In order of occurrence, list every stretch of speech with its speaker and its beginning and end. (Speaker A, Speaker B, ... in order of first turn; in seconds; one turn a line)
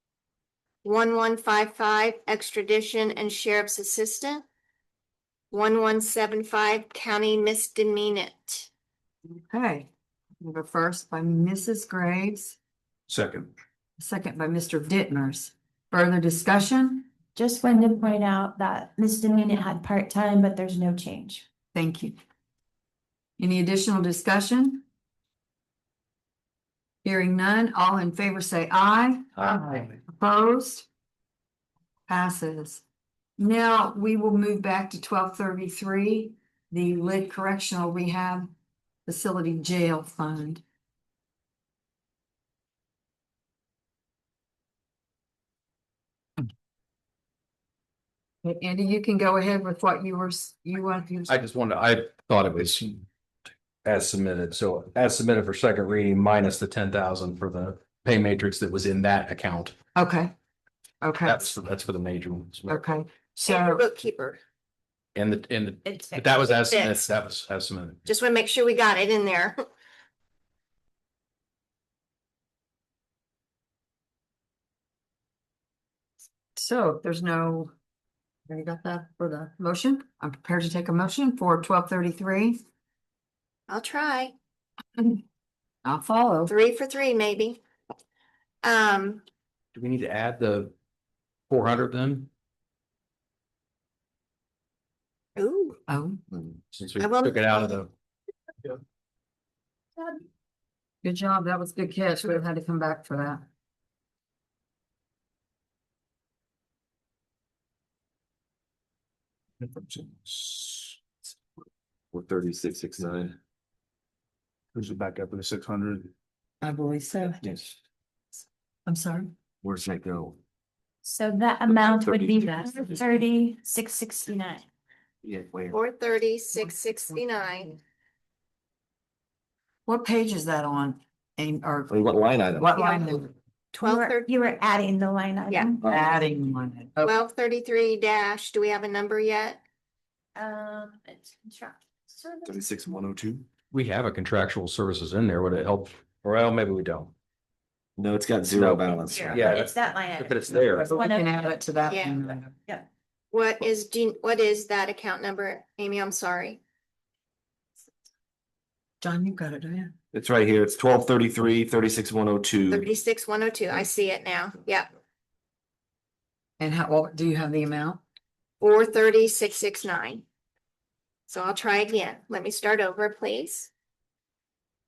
Speaker A: 0.8-4.5
Speaker A: 5.5-8.7
Speaker B: 9.3-9.9
Speaker B: 10.4-12.6
Speaker C: 13.1-13.5
Speaker B: 14.0-17.1
Speaker D: 17.3-21.5
Speaker B: 21.7-22.2
Speaker B: 23.4-24.8
Speaker B: 27.0-29.3
Speaker B: 30.1-30.9
Speaker B: 32.1-32.8
Speaker B: 33.4-38.5
Speaker B: 39.1-40.6
Speaker B: 48.4-51.4
Speaker E: 51.3-53.0
Speaker E: 53.8-59.7
Speaker B: 60.0-60.3
Speaker B: 61.0-61.5
Speaker E: 61.2-62.9
Speaker B: 62.7-63.8
Speaker A: 63.5-64.4
Speaker E: 65.2-68.0
Speaker D: 65.8-66.4
Speaker A: 66.7-67.0
Speaker A: 68.1-69.6
Speaker B: 76.6-77.7
Speaker B: 78.5-82.6
Speaker A: 83.7-84.3
Speaker A: 85.0-85.2
Speaker B: 85.8-86.5
Speaker A: 86.5-87.6
Speaker A: 88.6-89.2
Speaker E: 89.7-90.7
Speaker E: 91.5-92.3
Speaker A: 95.4-95.8
Speaker B: 95.9-96.2
Speaker E: 96.7-97.9
Speaker A: 97.0-97.5
Speaker B: 101.0-103.4
Speaker C: 109.8-110.8
Speaker F: 112.1-113.3
Speaker C: 114.8-116.0
Speaker B: 116.6-117.7
Speaker B: 118.8-119.3
Speaker F: 119.6-120.4
Speaker D: 121.0-124.7
Speaker F: 121.8-122.3
Speaker B: 122.3-123.0
Speaker F: 125.2-125.8
Speaker A: 125.7-127.7
Speaker B: 126.6-127.8
Speaker B: 129.8-131.9
Speaker F: 131.9-132.8
Speaker B: 132.5-133.3
Speaker A: 133.7-134.3
Speaker D: 133.8-135.7
Speaker B: 135.8-137.1
Speaker A: 137.0-139.6
Speaker D: 140.3-142.6
Speaker F: 142.4-143.5
Speaker E: 143.7-147.1
Speaker F: 148.0-149.5
Speaker E: 148.5-150.8
Speaker D: 149.1-151.4
Speaker B: 150.6-152.6
Speaker A: 151.9-152.2
Speaker A: 153.3-156.6
Speaker B: 159.0-159.9
Speaker F: 160.1-162.9
Speaker A: 162.7-164.9
Speaker B: 166.6-168.0
Speaker A: 168.6-170.2
Speaker A: 171.3-173.7